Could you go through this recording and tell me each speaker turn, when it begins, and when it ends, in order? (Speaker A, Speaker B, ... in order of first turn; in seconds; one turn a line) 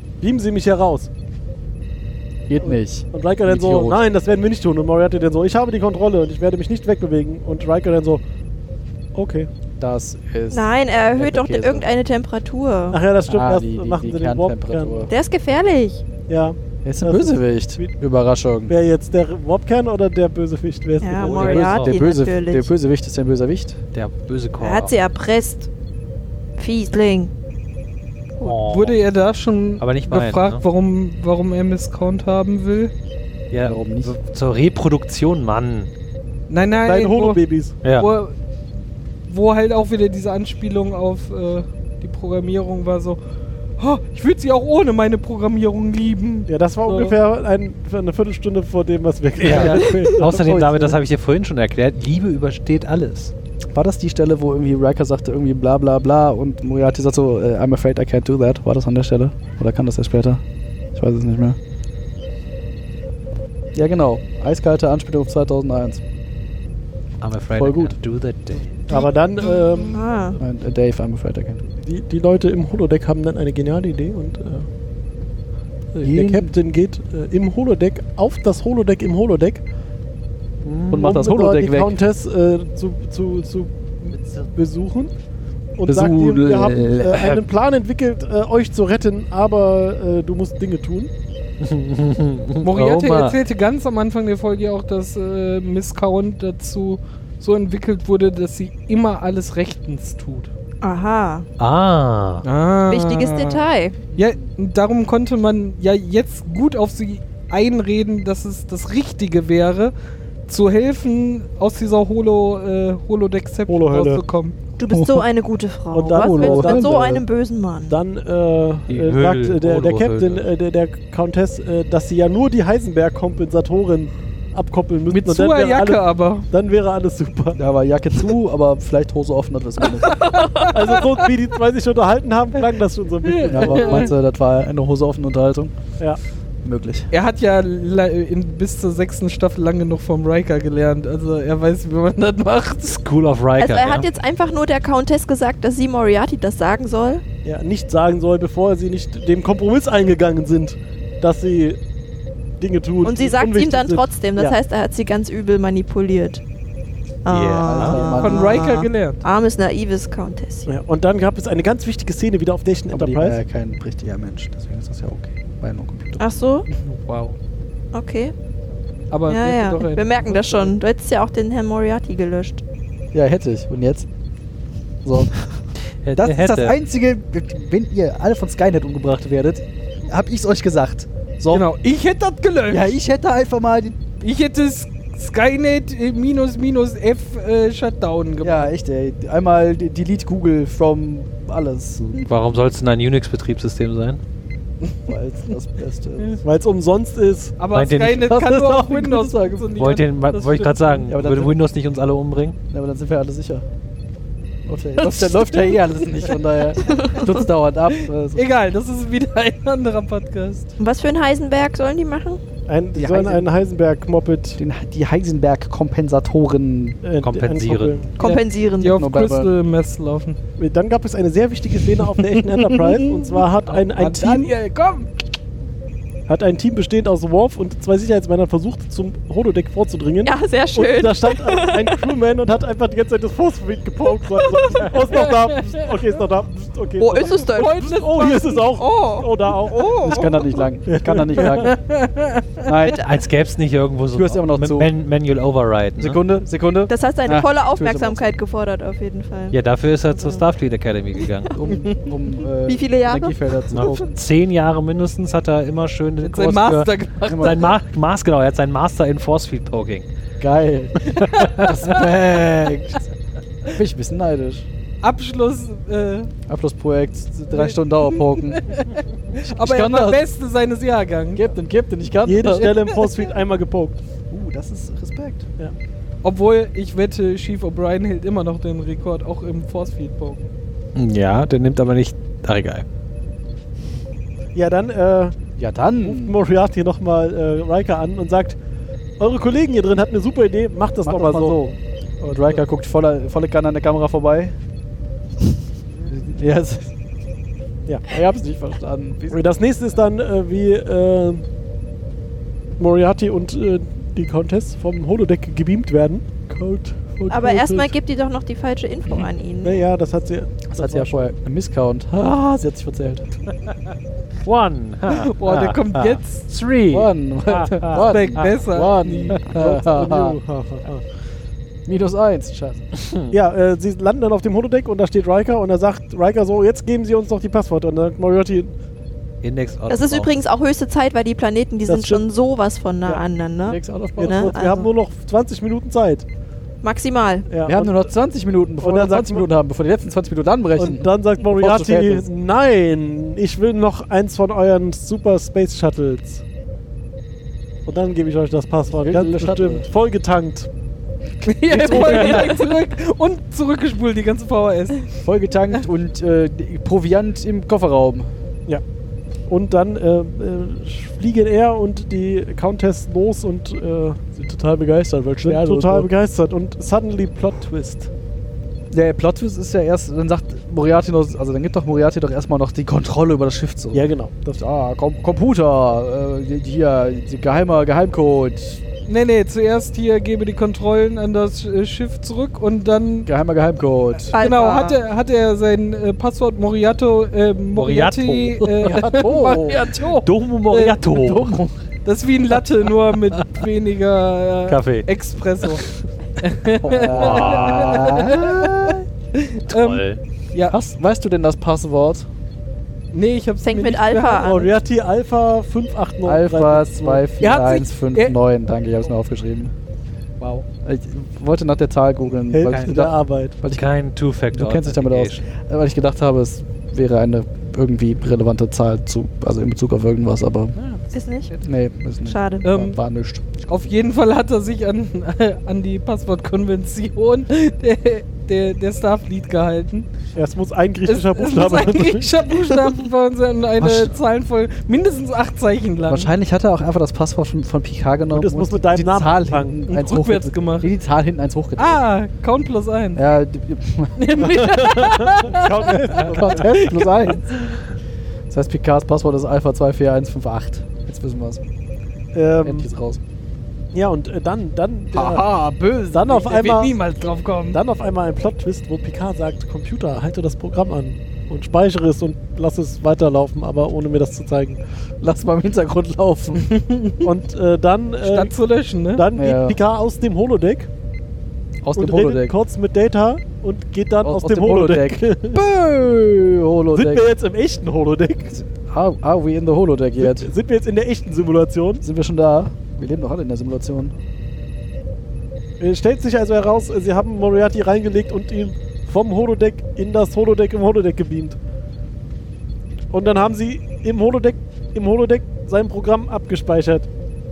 Speaker A: 0.2-1.1
Speaker B: 2.5-4.0
Speaker A: 2.6-8.2
Speaker A: 9.1-9.5
Speaker B: 9.8-11.9
Speaker C: 10.5-13.0
Speaker A: 12.9-15.1
Speaker B: 13.2-15.1
Speaker C: 15.1-16.0
Speaker A: 16.3-17.9
Speaker B: 16.8-18.7
Speaker A: 18.7-21.8
Speaker C: 21.0-22.7
Speaker D: 21.3-22.0
Speaker B: 21.3-23.8
Speaker D: 23.9-24.9
Speaker C: 24.6-25.7
Speaker C: 26.6-27.3
Speaker D: 28.4-29.0
Speaker E: 28.6-32.9
Speaker D: 29.8-30.6
Speaker D: 33.5-35.9
Speaker B: 33.6-34.1
Speaker E: 36.5-37.4
Speaker A: 36.8-37.8
Speaker D: 37.8-38.1
Speaker E: 38.0-38.3
Speaker E: 39.3-43.2
Speaker E: 43.8-47.2
Speaker A: 46.5-50.5
Speaker D: 49.4-53.3
Speaker B: 49.5-51.0
Speaker B: 53.7-60.4
Speaker B: 60.9-61.6
Speaker B: 63.7-66.0
Speaker D: 67.2-68.8
Speaker B: 67.5-68.0
Speaker A: 68.9-70.4
Speaker C: 69.8-70.4
Speaker B: 70.4-71.6
Speaker A: 71.8-74.7
Speaker A: 75.9-79.6
Speaker B: 76.0-76.5
Speaker D: 80.6-81.0
Speaker B: 80.9-82.0
Speaker A: 80.9-85.1
Speaker D: 84.2-84.5
Speaker A: 85.8-91.1
Speaker B: 85.8-87.4
Speaker D: 91.6-93.4
Speaker E: 92.6-100.5
Speaker C: 100.8-101.5
Speaker D: 101.6-102.4
Speaker E: 102.4-109.9
Speaker C: 102.9-104.0
Speaker E: 110.5-114.5
Speaker A: 113.7-114.2
Speaker C: 114.8-118.0
Speaker B: 114.9-115.2
Speaker A: 115.9-117.2
Speaker B: 116.1-117.1
Speaker A: 117.8-127.6
Speaker D: 118.9-120.4
Speaker E: 125.1-126.5
Speaker B: 127.5-130.2
Speaker C: 130.0-130.9
Speaker E: 130.3-130.7
Speaker A: 130.7-134.1
Speaker E: 133.2-134.1
Speaker B: 133.5-135.7
Speaker B: 136.6-137.1
Speaker E: 137.1-143.0
Speaker D: 142.9-144.1
Speaker C: 143.6-147.2
Speaker A: 147.4-151.8
Speaker A: 152.6-154.6
Speaker C: 153.0-156.4
Speaker C: 157.2-160.7
Speaker D: 157.3-158.2
Speaker B: 157.6-158.7
Speaker E: 158.1-159.2
Speaker A: 160.7-163.4
Speaker B: 162.9-166.2
Speaker C: 166.2-166.7
Speaker E: 166.7-167.4
Speaker C: 167.9-168.3
Speaker E: 169.1-170.7
Speaker C: 169.3-172.6
Speaker B: 173.1-174.1
Speaker B: 175.0-175.4
Speaker D: 176.0-176.7
Speaker B: 176.2-181.7
Speaker E: 181.5-182.9
Speaker B: 182.7-184.0
Speaker E: 184.2-188.7
Speaker B: 188.4-192.2
Speaker D: 192.1-194.2
Speaker B: 195.1-196.4
Speaker A: 196.4-197.5
Speaker E: 197.6-201.1
Speaker D: 197.7-198.3
Speaker B: 198.2-199.7
Speaker D: 199.8-202.6
Speaker B: 201.1-201.6
Speaker B: 202.7-203.7
Speaker B: 204.6-208.4
Speaker E: 205.0-206.3
Speaker C: 206.8-207.3
Speaker E: 207.9-210.7
Speaker C: 210.8-212.4
Speaker A: 212.7-214.6
Speaker B: 212.9-213.5
Speaker B: 214.6-217.0
Speaker A: 217.0-218.1
Speaker D: 217.2-218.1
Speaker C: 218.2-219.0
Speaker E: 218.2-220.4
Speaker B: 218.9-219.5
Speaker A: 220.6-224.5
Speaker E: 222.2-225.1
Speaker A: 226.3-240.2
Speaker C: 230.2-231.9
Speaker C: 234.5-234.9
Speaker E: 235.1-235.9
Speaker C: 237.0-237.8
Speaker E: 237.4-238.7
Speaker C: 238.7-240.6
Speaker B: 240.0-241.8
Speaker A: 240.8-241.7
Speaker E: 241.3-242.8
Speaker B: 242.6-243.0
Speaker D: 242.9-246.2
Speaker B: 244.1-244.9
Speaker B: 246.0-248.3
Speaker C: 246.9-250.4
Speaker D: 249.5-251.5
Speaker B: 251.5-254.1
Speaker C: 252.7-254.0
Speaker D: 253.7-260.1
Speaker E: 256.2-257.7
Speaker B: 257.3-257.7
Speaker B: 260.4-263.1
Speaker E: 261.2-261.8
Speaker B: 263.7-264.7
Speaker E: 265.0-266.3
Speaker B: 266.5-268.7
Speaker E: 267.5-271.5
Speaker B: 269.4-270.2
Speaker B: 271.3-272.8
Speaker A: 272.2-274.0
Speaker B: 274.3-275.5
Speaker E: 276.2-280.5
Speaker D: 280.9-282.8
Speaker A: 284.5-285.3
Speaker B: 285.6-286.4
Speaker A: 286.0-288.6
Speaker A: 289.2-291.6
Speaker B: 291.0-294.6
Speaker B: 296.1-296.9
Speaker B: 298.0-299.4
Speaker A: 299.3-301.4
Speaker A: 302.8-307.9
Speaker C: 307.3-309.8
Speaker A: 309.6-311.3
Speaker B: 310.7-313.3
Speaker D: 314.4-317.1
Speaker E: 315.1-316.5
Speaker B: 316.9-320.4
Speaker A: 317.6-318.0
Speaker E: 318.0-319.5
Speaker A: 319.4-321.0
Speaker B: 321.9-322.9
Speaker D: 323.0-323.2
Speaker A: 323.3-328.7
Speaker D: 329.4-330.4
Speaker C: 329.9-334.9
Speaker A: 331.9-332.2
Speaker B: 333.6-334.5
Speaker A: 334.2-336.2
Speaker C: 336.8-337.5
Speaker A: 337.5-338.1
Speaker B: 337.6-342.3
Speaker A: 338.8-339.4
Speaker A: 340.8-346.4
Speaker A: 347.9-350.7
Speaker B: 348.9-349.9
Speaker E: 351.4-355.1
Speaker B: 351.7-352.6
Speaker A: 351.7-352.6
Speaker B: 355.2-358.3
Speaker A: 359.5-368.1
Speaker B: 365.4-366.1
Speaker B: 368.9-378.8
Speaker A: 373.9-374.6
Speaker E: 379.1-383.3
Speaker B: 383.2-384.3
Speaker E: 384.3-391.4
Speaker C: 384.3-385.0
Speaker D: 387.7-389.0
Speaker B: 388.8-390.0
Speaker D: 390.2-391.6
Speaker B: 391.1-391.7
Speaker E: 392.0-395.9
Speaker D: 394.7-395.1
Speaker D: 395.6-395.9
Speaker E: 396.4-400.8
Speaker B: 396.8-399.0
Speaker D: 397.0-398.2
Speaker D: 399.7-400.2
Speaker B: 400.7-402.3
Speaker E: 403.1-404.6
Speaker C: 403.6-404.7
Speaker A: 404.4-407.2
Speaker B: 406.2-409.7
Speaker E: 407.4-408.4
Speaker D: 410.4-410.6
Speaker B: 410.8-413.9
Speaker A: 412.5-413.6
Speaker D: 412.7-413.0
Speaker D: 413.7-415.4
Speaker B: 414.5-420.7
Speaker E: 420.7-421.6
Speaker C: 421.1-421.5
Speaker B: 421.6-423.6
Speaker C: 422.2-422.7
Speaker E: 422.6-423.0
Speaker E: 423.6-430.1
Speaker A: 430.3-432.4
Speaker E: 431.1-436.3
Speaker B: 433.8-434.1
Speaker B: 436.1-442.0
Speaker A: 438.3-439.8
Speaker E: 439.9-440.9
Speaker E: 441.8-443.3
Speaker B: 443.1-444.6
Speaker E: 444.2-445.9
Speaker A: 444.4-447.1
Speaker B: 446.3-447.5
Speaker E: 446.6-447.3
Speaker B: 448.5-451.6
Speaker A: 452.3-452.9
Speaker B: 452.6-453.2
Speaker A: 453.9-455.4
Speaker B: 455.1-456.4
Speaker A: 456.1-457.0
Speaker E: 456.3-457.8
Speaker A: 457.7-464.8
Speaker B: 465.2-466.7
Speaker E: 466.6-467.2
Speaker A: 467.2-468.5
Speaker E: 468.2-469.2
Speaker A: 469.1-470.9
Speaker B: 469.3-469.8
Speaker B: 471.8-472.6
Speaker A: 471.9-475.6
Speaker B: 474.2-477.3
Speaker A: 476.9-478.6
Speaker B: 478.5-480.5
Speaker A: 480.2-482.0
Speaker B: 482.0-484.1
Speaker A: 485.8-491.6
Speaker A: 493.1-497.1